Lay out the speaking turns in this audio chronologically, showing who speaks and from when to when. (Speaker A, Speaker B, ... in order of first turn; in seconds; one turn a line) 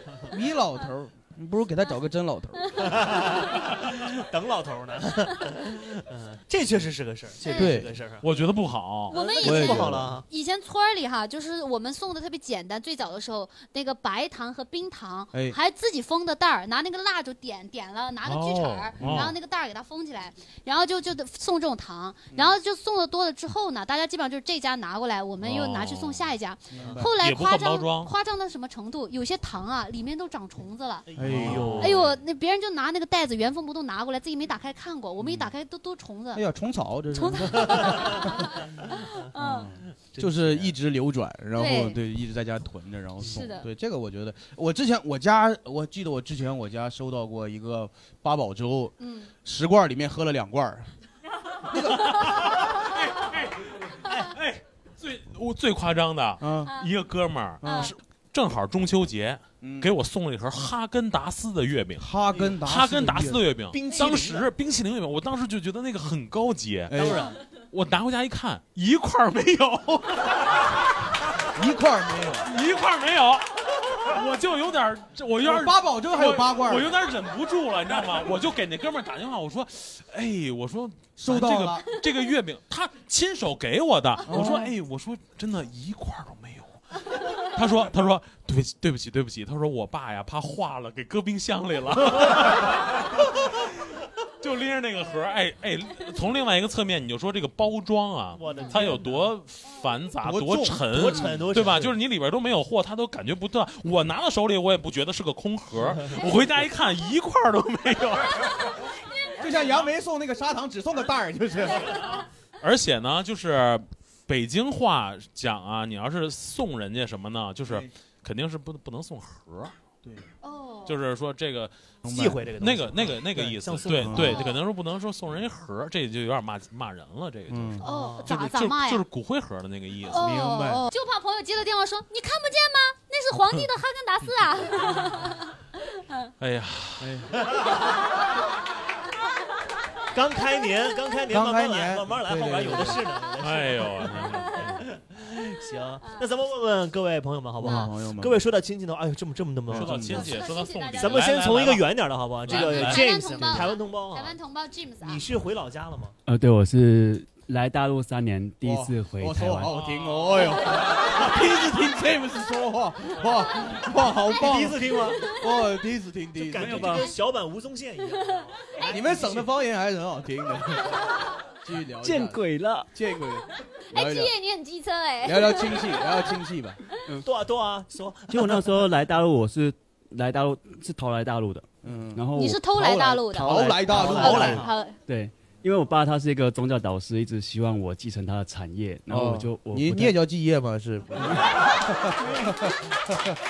Speaker A: 0.3-3.0
Speaker B: 2.8-8.2
Speaker C: 7.4-7.7
Speaker A: 7.5-7.9
Speaker D: 8.2-9.2
Speaker C: 9.1-31.1
Speaker B: 9.1-10.2
Speaker A: 9.4-10.2
Speaker D: 18.2-19.3
Speaker A: 19.0-19.3
Speaker D: 25.4-26.3
Speaker A: 26.7-27.1
Speaker B: 26.8-27.1
Speaker D: 27.2-28.1
Speaker B: 31.1-32.1
Speaker A: 31.1-31.9
Speaker D: 31.2-32.1
Speaker C: 31.8-36.4
Speaker A: 35.2-35.5
Speaker A: 36.3-38.3
Speaker C: 37.1-39.7
Speaker B: 37.5-38.2
Speaker A: 39.4-50.9
Speaker B: 40.1-40.7
Speaker C: 41.6-42.0
Speaker C: 43.3-43.7
Speaker C: 49.0-49.3
Speaker A: 51.7-52.1
Speaker D: 51.8-62.0
Speaker A: 56.4-56.7
Speaker A: 57.6-57.9
Speaker C: 57.6-57.9
Speaker A: 59.6-59.9
Speaker A: 62.0-63.5
Speaker D: 62.6-70.4
Speaker B: 63.7-64.5
Speaker A: 66.9-67.3
Speaker B: 66.9-67.3
Speaker A: 71.5-72.5
Speaker D: 72.4-86.8
Speaker A: 75.4-76.9
Speaker A: 81.2-81.8
Speaker A: 84.3-84.7
Speaker D: 87.5-93.5
Speaker D: 94.4-108.7
Speaker B: 98.3-99.3
Speaker A: 100.2-101.4
Speaker B: 100.9-101.9
Speaker A: 109.4-112.0
Speaker D: 112.6-119.7
Speaker C: 120.4-121.0
Speaker D: 120.8-121.7
Speaker A: 122.0-122.4
Speaker B: 122.0-124.5
Speaker D: 122.6-130.4
Speaker A: 124.0-124.4
Speaker C: 124.2-124.6
Speaker A: 127.5-127.8
Speaker C: 127.8-129.0
Speaker B: 127.8-128.3
Speaker C: 130.1-135.5
Speaker A: 130.1-130.8
Speaker D: 136.4-137.2
Speaker A: 137.0-137.3
Speaker B: 140.1-150.3
Speaker A: 141.3-143.0
Speaker D: 143.4-144.8
Speaker A: 147.6-148.4
Speaker C: 147.6-147.9
Speaker A: 149.7-150.2
Speaker D: 149.7-151.9
Speaker C: 150.1-151.7
Speaker B: 151.0-154.4
Speaker D: 152.4-153.7
Speaker C: 152.5-155.2
Speaker B: 155.0-156.1
Speaker E: 156.2-159.7
Speaker A: 158.6-167.0
Speaker D: 159.7-160.6
Speaker B: 164.3-165.3
Speaker B: 166.4-169.5
Speaker E: 166.6-167.1
Speaker A: 168.8-171.1
Speaker A: 171.6-172.4
Speaker E: 172.0-172.9
Speaker A: 172.9-174.3
Speaker C: 173.9-175.9
Speaker A: 175.2-176.8
Speaker B: 177.2-178.8
Speaker E: 178.3-182.7
Speaker A: 181.8-184.7
Speaker C: 182.3-185.0
Speaker B: 183.9-184.7
Speaker E: 185.1-190.2
Speaker A: 189.1-192.5